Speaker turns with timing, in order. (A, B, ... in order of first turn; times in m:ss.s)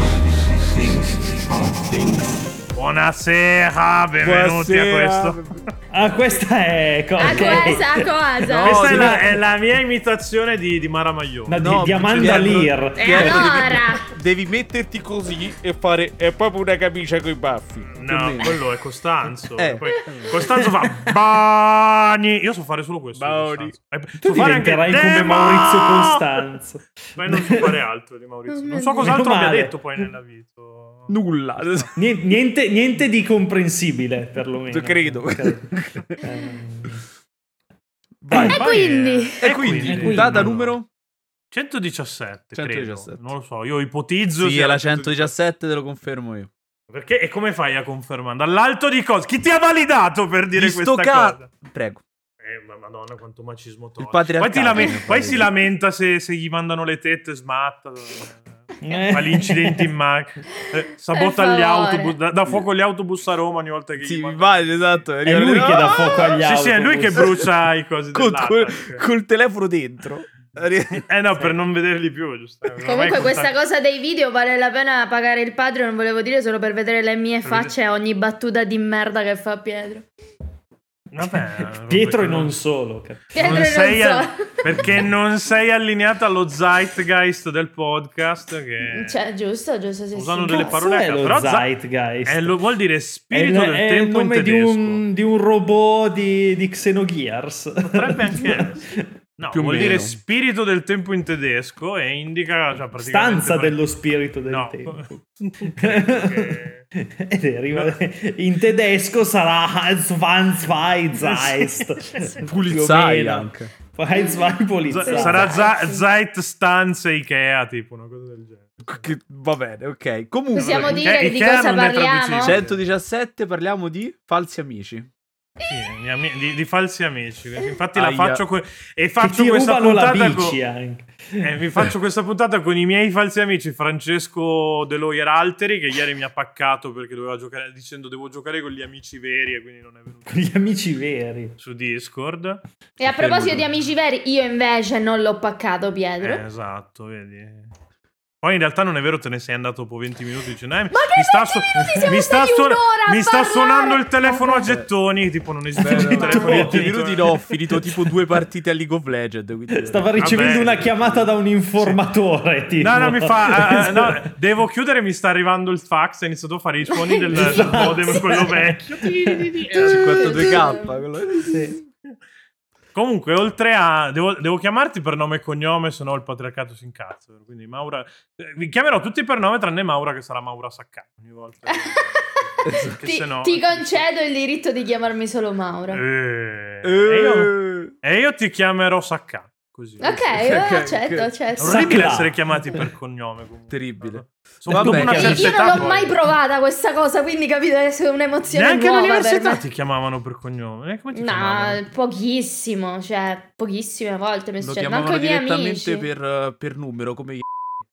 0:00.8-0:01.0 A
0:02.7-0:05.4 B
0:04.2-0:05.6 A
0:05.9-0:09.4 C
0:07.2-0:08.9 D
0:07.2-0:07.8 A
0:08.5-0:09.3 A
0:08.6-0:12.7 B
0:11.5-0:13.7 C
0:11.6-0:18.6 A
0:13.0-0:14.0 D
0:17.9-0:26.4 B
0:19.6-0:20.4 A
0:23.1-0:23.7 A
0:24.2-0:27.8 C
0:27.2-0:31.9 B
0:28.5-0:29.1 D
0:29.0-0:30.0 C
0:31.1-0:31.9 A
0:32.0-0:37.0 C
0:34.7-0:36.2 A
0:38.2-0:38.9 C
0:38.3-0:38.6 A
0:38.3-0:39.4 D
0:38.4-0:40.7 B
0:39.4-0:40.9 A
0:39.8-0:40.6 C
0:41.5-0:45.3 B
0:42.5-0:43.2 A
0:44.4-0:46.5 A
0:46.9-0:51.5 B
0:50.6-0:52.0 A
0:52.4-1:04.7 B
0:54.0-0:55.5 A
0:58.8-0:59.9 C
1:01.1-1:02.1 D
1:04.0-1:06.4 A
1:05.2-1:07.3 C
1:06.4-1:09.0 B
1:07.1-1:07.5 A
1:08.1-1:11.1 A
1:11.0-1:13.5 B
1:12.8-1:20.1 D
1:17.4-1:17.7 B
1:21.1-1:22.6 B
1:21.2-1:23.7 C
1:23.3-1:24.4 D
1:23.3-1:29.2 B
1:28.8-1:30.8 D
1:30.1-1:31.7 B
1:30.5-1:32.6 C
1:32.2-1:35.0 B
1:33.3-1:39.1 C
1:37.8-1:43.8 B
1:39.5-1:40.2 A
1:39.8-1:40.0 C
1:43.0-1:45.2 C
1:44.4-1:46.8 B
1:45.7-1:55.6 C
1:51.2-1:52.4 B
1:52.4-1:53.7 A
1:52.9-1:53.2 B
1:54.1-1:56.0 D
1:54.9-1:59.0 B
1:58.8-2:01.0 A
2:00.5-2:02.6 D
2:00.6-2:02.8 B
2:02.4-2:05.1 A
2:05.6-2:05.9 D
2:05.6-2:10.6 B
2:07.9-2:08.4 A
2:09.2-2:11.9 C
2:11.4-2:20.4 B
2:20.3-2:21.6 C
2:21.6-2:22.6 B
2:23.0-2:26.4 D
2:23.0-2:23.6 A
2:26.2-2:27.7 B
2:28.4-2:37.4 B
2:30.9-2:34.6 D
2:34.6-2:34.9 A
2:35.8-2:41.3 A
2:35.8-2:37.0 C
2:39.7-2:44.3 C
2:40.2-2:40.7 B
2:42.8-2:50.6 B
2:46.9-2:48.4 D
2:47.3-2:49.6 C
2:49.7-2:51.0 D
2:49.8-2:51.8 A
2:51.4-2:51.8 C
2:52.9-3:04.0 B
3:01.7-3:06.0 D
3:02.6-3:03.0 A
3:05.9-3:10.2 B
3:06.8-3:07.9 A
3:10.0-3:12.0 D
3:10.3-3:11.3 A
3:11.6-3:16.2 B
3:11.6-3:12.8 C
3:13.7-3:15.5 A
3:14.7-3:15.8 C
3:15.1-3:19.6 D
3:18.5-3:21.8 B
3:21.1-3:26.1 D
3:24.6-3:27.4 A